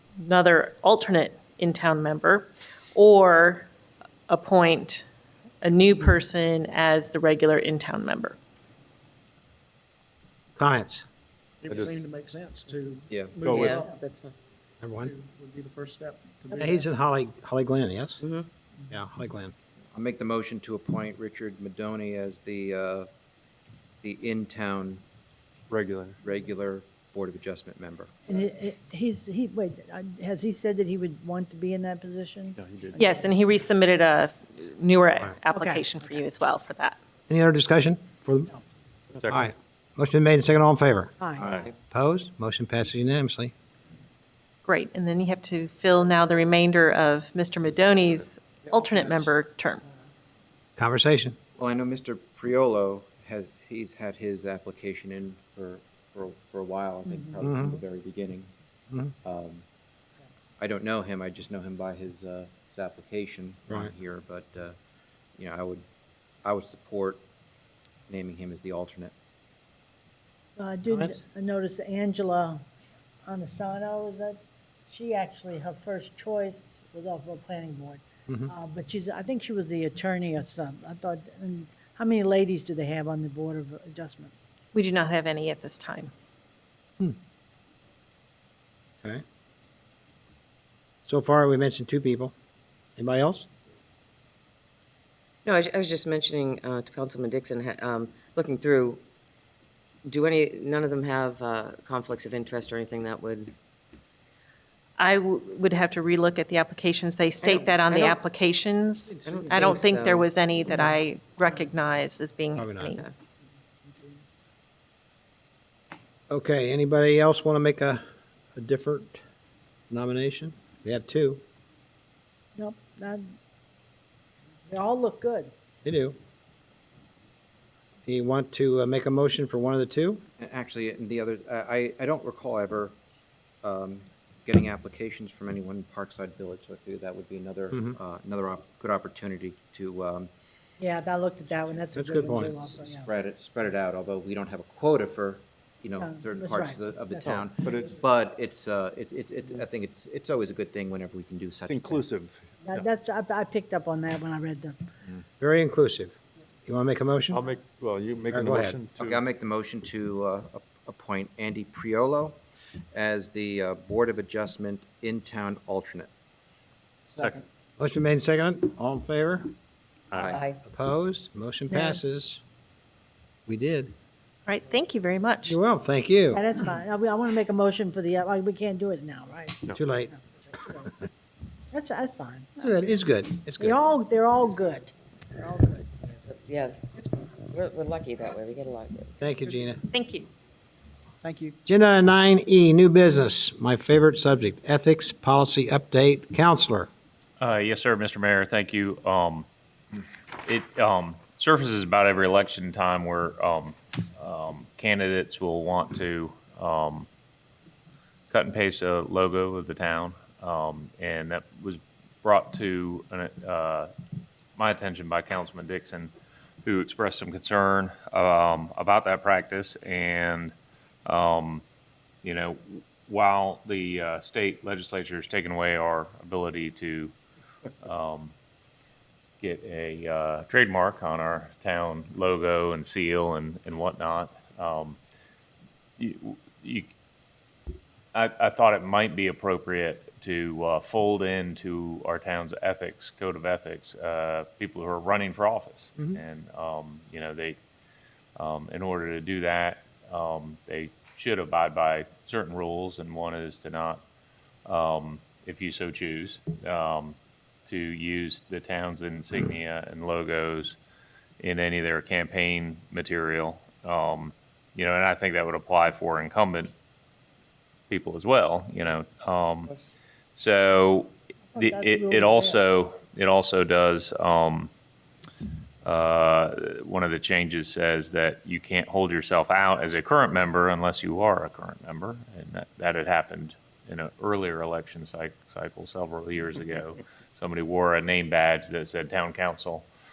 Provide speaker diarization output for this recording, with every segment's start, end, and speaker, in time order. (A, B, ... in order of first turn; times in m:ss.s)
0:00.2-0:03.7 A
0:04.3-0:05.0 A
0:05.6-0:08.4 A
0:10.6-0:11.0 B
0:11.6-0:14.0 C
0:11.7-0:12.0 D
0:13.1-0:13.5 E
0:13.4-0:13.8 D
0:13.5-0:14.3 F
0:14.8-0:15.1 B
0:15.0-0:16.8 C
0:16.6-0:18.2 B
0:18.2-0:18.5 F
0:18.9-0:19.5 B
0:19.9-0:23.1 E
0:24.0-0:25.0 E
0:25.7-0:26.2 D
0:26.2-0:28.1 E
0:28.4-0:32.5 G
0:32.6-0:33.2 D
0:33.0-0:37.0 A
0:37.3-0:38.5 B
0:39.1-0:39.5 D
0:39.2-0:41.2 B
0:41.4-0:41.7 D
0:41.9-0:43.5 B
0:44.6-0:49.8 A
0:50.8-0:51.4 B
0:51.6-0:58.5 E
0:57.4-0:57.8 B
0:59.2-0:59.6 E
1:00.6-1:04.8 E
1:05.4-1:05.8 E
1:06.4-1:07.2 E
1:08.1-1:09.1 E
1:10.6-1:12.6 G
1:10.9-1:11.2 B
1:13.3-1:14.4 G
1:15.0-1:18.0 G
1:18.3-1:18.5 B
1:18.5-1:21.9 G
1:22.5-1:24.0 G
1:24.7-1:26.1 A
1:31.0-1:32.3 B
1:33.0-1:33.5 B
1:35.4-1:39.0 F
1:40.0-1:43.5 F
1:45.0-1:53.1 A
1:47.4-1:48.2 F
1:49.2-1:50.3 F
1:52.5-1:53.0 B
1:56.3-1:58.0 B
1:58.6-1:59.2 B
1:59.9-2:01.4 B
2:02.6-2:03.2 G
2:05.8-2:06.2 B
2:08.0-2:10.2 B
2:10.4-2:13.0 E
2:13.6-2:20.3 E
2:20.8-2:21.4 G
2:21.9-2:22.6 B
2:22.0-2:22.4 G
2:22.5-2:32.0 E
2:27.6-2:28.0 D
2:31.6-2:32.9 D
2:32.9-2:34.7 G
2:35.4-2:36.1 B
2:36.6-2:37.4 B
2:37.3-2:39.2 D
2:38.3-2:38.8 B
2:39.0-2:42.4 E
2:42.9-2:46.1 E
2:47.1-2:47.4 D
2:47.8-2:49.5 B
2:50.1-2:50.4 D
2:50.2-2:50.6 F
2:50.6-2:52.4 B
2:53.5-2:53.9 B
2:54.5-2:55.6 A
2:55.4-2:56.4 B
2:57.2-2:57.7 G
2:58.4-2:58.7 G
2:59.7-3:00.1 B
3:01.7-3:02.1 G
3:02.6-3:03.8 B
3:03.8-3:04.4 G
3:06.2-3:09.2 F
3:09.2-3:09.8 B
3:09.9-3:10.3 A
3:11.2-3:11.5 C
3:11.6-3:16.9 B
3:17.4-3:19.5 H
3:20.4-3:27.1 H
3:28.3-3:33.9 H
3:34.6-3:36.1 H
3:36.6-3:40.5 H
3:41.0-3:41.6 H
3:42.2-3:47.1 H
3:47.8-3:48.3 H
3:49.4-3:55.0 H
3:56.0-3:56.9 H
3:58.1-4:07.6 H
4:08.4-4:14.0 H
4:14.6-4:20.8 H
4:21.4-4:26.7 H
4:27.9-4:29.7 H
4:30.4-4:34.7 H
4:31.6-4:32.5 G
4:35.8-4:49.8 H